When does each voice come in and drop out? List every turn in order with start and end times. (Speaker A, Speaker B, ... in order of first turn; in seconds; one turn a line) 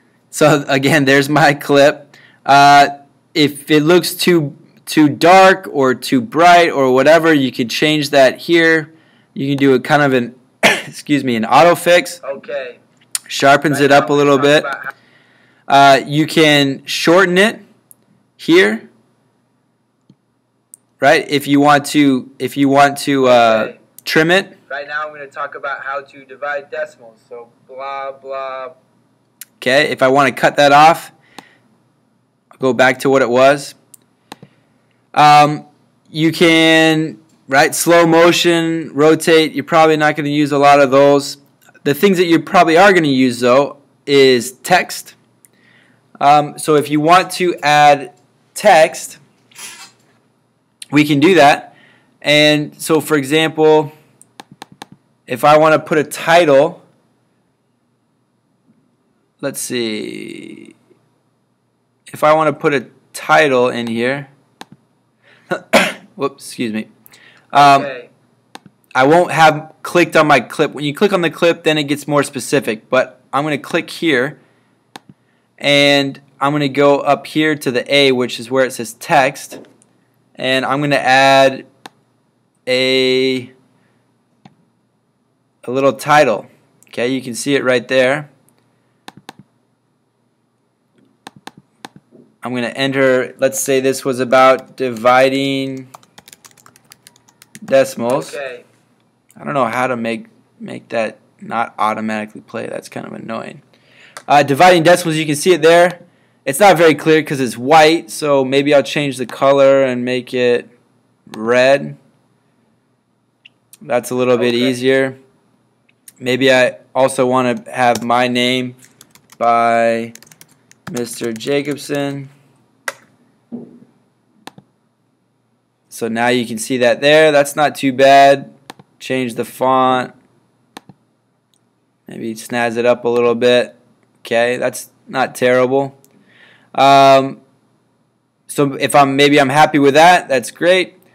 Speaker A: 0.3-12.2
Speaker B: 12.2-12.8
Speaker A: 13.3-14.7
Speaker B: 13.7-14.9
Speaker A: 15.7-17.6
Speaker A: 18.4-18.9
Speaker A: 21.0-24.6
Speaker B: 23.2-23.8
Speaker B: 24.7-28.8
Speaker A: 29.6-31.1
Speaker A: 32.6-33.8
Speaker A: 35.1-45.2
Speaker A: 46.2-49.2
Speaker A: 50.9-53.9
Speaker A: 55.3-56.8
Speaker A: 59.4-60.7
Speaker A: 62.1-64.3
Speaker A: 65.5-66.9
Speaker A: 67.5-67.9
Speaker B: 67.5-68.1
Speaker A: 69.0-74.4
Speaker A: 75.6-79.6
Speaker A: 80.4-81.7
Speaker A: 82.7-83.5
Speaker A: 85.6-88.3
Speaker A: 92.4-95.9
Speaker A: 97.7-98.4
Speaker B: 98.1-98.7
Speaker A: 99.4-103.6
Speaker A: 104.3-110.7
Speaker A: 111.3-112.0
Speaker A: 113.8-115.2
Speaker B: 114.4-114.7
Speaker A: 116.2-118.8
Speaker A: 119.4-120.2
Speaker A: 120.9-122.3
Speaker A: 125.9-130.1
Speaker A: 132.1-136.0
Speaker A: 136.8-137.4
Speaker A: 138.5-140.9